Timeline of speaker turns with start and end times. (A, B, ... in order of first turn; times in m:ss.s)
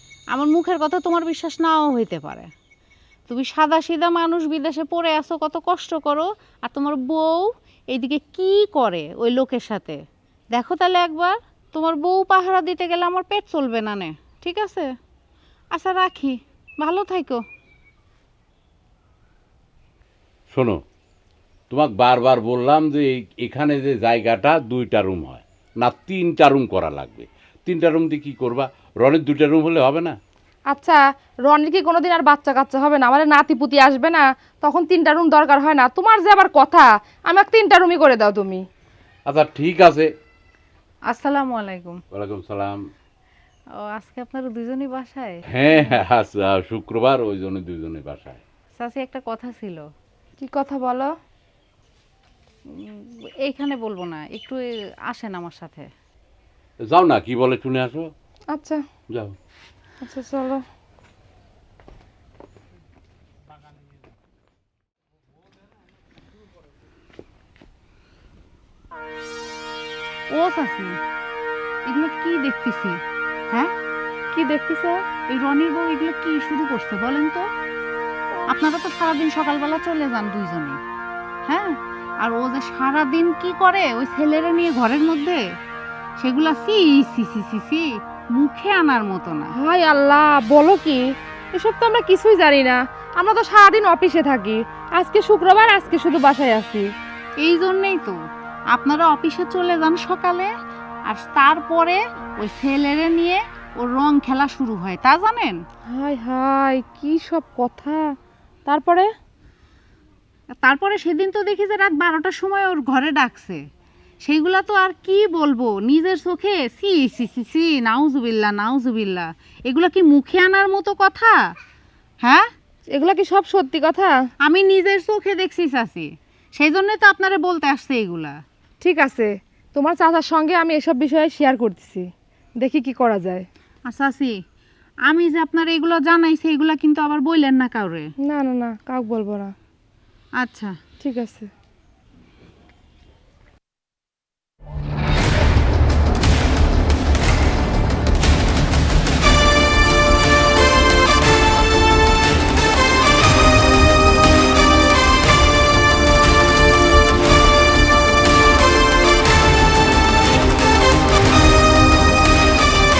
0:00.3-0:02.5 A
0:03.3-0:10.0 A
0:10.5-0:14.9 A
0:15.7-0:17.4 A
0:20.5-0:20.8 B
0:21.7-0:30.2 B
0:30.7-0:38.6 C
0:39.3-0:40.1 B
0:41.1-0:42.0 A
0:42.1-0:42.8 B
0:43.8-0:45.4 A
0:45.5-0:48.4 B
0:48.8-0:49.9 A
0:50.4-0:51.1 C
0:52.7-0:55.9 A
0:56.8-0:58.1 B
0:58.5-0:58.8 C
0:59.1-0:59.3 B
1:00.0-1:00.6 C
1:10.3-1:11.0 A
1:11.9-1:13.0 A
1:14.3-1:15.0 C
1:15.3-1:17.4 A
1:18.5-1:20.8 A
1:21.5-1:25.5 A
1:26.2-1:29.5 A
1:29.5-1:36.9 C
1:37.4-1:38.2 A
1:38.7-1:40.5 A
1:41.1-1:45.6 A
1:45.9-1:48.1 C
1:48.6-1:49.1 C
1:50.6-1:53.6 A
1:54.2-2:01.4 A
2:02.2-2:02.5 A
2:02.9-2:04.1 C
2:04.4-2:08.4 A
2:08.8-2:13.4 C
2:13.9-2:14.4 A
2:15.1-2:18.1 A
2:18.2-2:19.5 C
2:20.4-2:20.8 A
2:21.0-2:21.5 C